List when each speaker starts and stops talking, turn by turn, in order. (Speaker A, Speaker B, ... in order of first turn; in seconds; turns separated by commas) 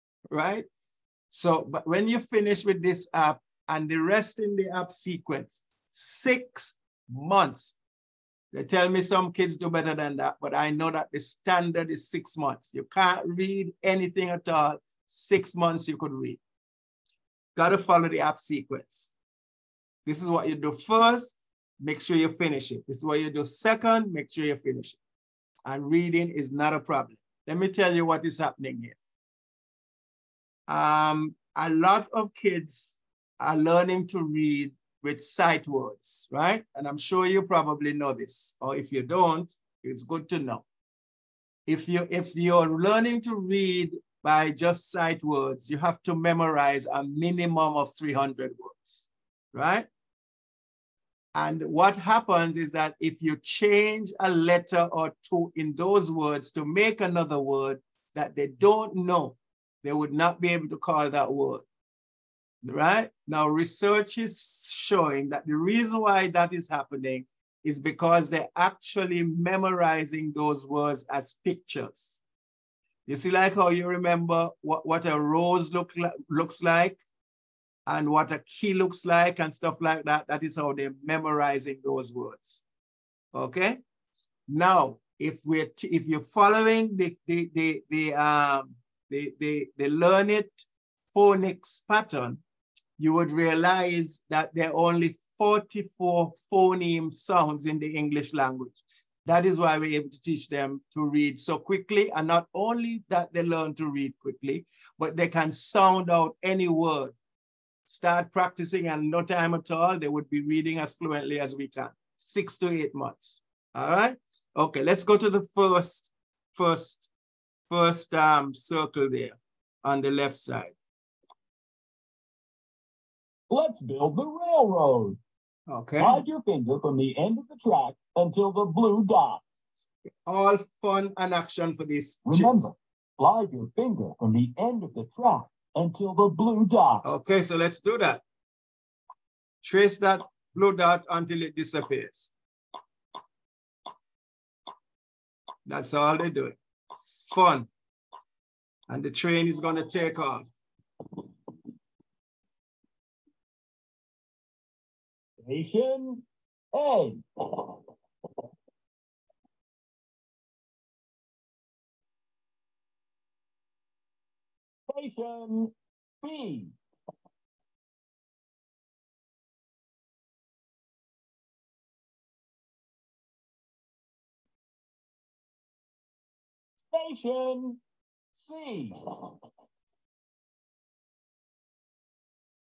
Speaker A: 0.3-0.7, Speaker A: 1.3-7.8, Speaker A: 8.5-16.4, Speaker A: 17.6-19.1, Speaker A: 20.1-25.0, Speaker A: 25.6-29.0, Speaker A: 30.7-40.6, Speaker A: 41.7-49.9, Speaker A: 51.4-61.6, Speaker A: 62.6-72.2, Speaker A: 73.1-77.0, Speaker A: 77.9-82.6, Speaker A: 83.3-83.8, Speaker A: 84.5-92.4, Speaker A: 93.0-107.2, Speaker A: 107.9-117.1, Speaker A: 117.7-120.7, Speaker B: 123.5-125.2, Speaker A: 125.7-126.2, Speaker B: 126.0-129.4, Speaker A: 130.3-132.7, Speaker B: 132.3-137.1, Speaker A: 137.0-138.2, Speaker A: 139.6-142.3, Speaker A: 145.7-147.7, Speaker A: 148.9-150.5, Speaker B: 155.5-157.7, Speaker B: 164.9-166.7, Speaker B: 176.9-177.8, Speaker B: 178.3-179.2